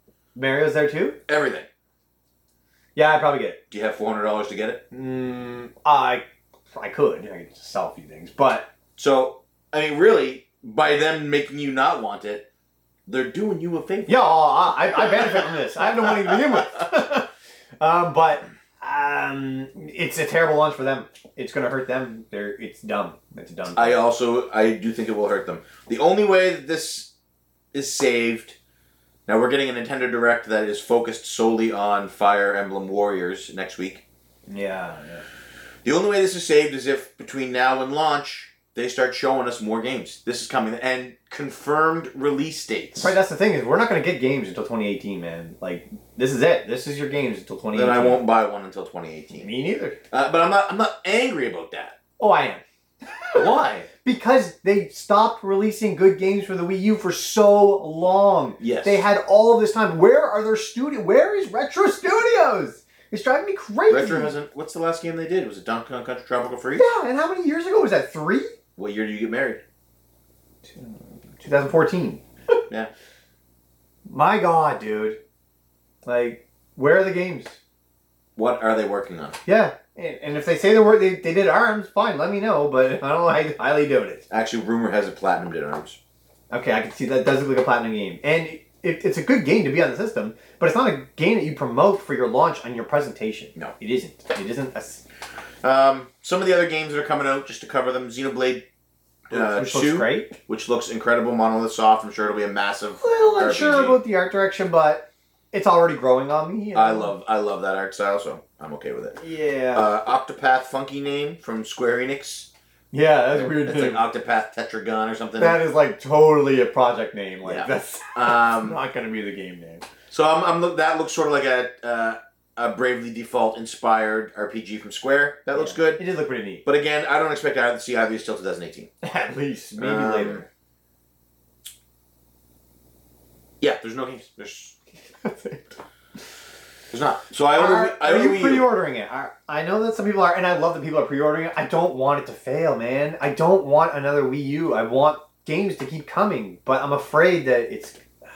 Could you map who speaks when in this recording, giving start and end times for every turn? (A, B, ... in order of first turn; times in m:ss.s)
0:00.4-0:01.2 A
0:01.3-0:01.7 B
0:03.0-0:03.6 A
0:03.7-0:04.8 B
0:04.9-0:08.7 A
0:09.0-0:12.4 B
0:13.1-0:14.1 B
0:14.1-0:17.3 A
0:15.0-0:15.5 B
0:16.1-0:16.6 B
0:17.8-0:24.0 A
0:23.7-0:27.1 B
0:27.7-0:28.6 B
0:29.3-0:34.0 B
0:34.5-0:35.2 A
0:35.8-0:43.1 B
0:43.0-0:48.2 A
0:47.7-0:49.5 B
0:49.4-0:50.0 A
0:50.1-0:52.0 B
0:52.2-0:52.6 A
0:53.2-1:04.3 A
0:53.3-0:53.9 B
0:58.6-0:59.0 B
1:03.9-1:06.8 B
1:06.7-1:08.5 A
1:08.8-1:09.6 B
1:10.6-1:12.6 A
1:14.1-1:15.2 A
1:16.0-1:17.6 A
1:18.4-1:19.4 B
1:19.4-1:24.2 A
1:24.3-1:26.0 B
1:26.5-1:35.0 A
1:35.6-1:38.6 B
1:39.3-1:44.0 B
1:39.3-1:40.4 A
1:43.0-1:47.1 A
1:46.7-1:49.2 B
1:49.2-1:49.9 A
1:49.7-1:52.5 B
1:52.9-1:54.0 A
1:53.3-1:55.6 B
1:55.4-1:59.9 A
1:57.4-1:58.8 B
2:00.1-2:06.0 B
2:05.5-2:06.6 A
2:06.6-2:08.9 B
2:09.0-2:10.4 A
2:09.8-2:10.4 B
2:13.6-2:14.7 B
2:15.2-2:15.6 A
2:16.9-2:18.7 B
2:17.5-2:28.0 A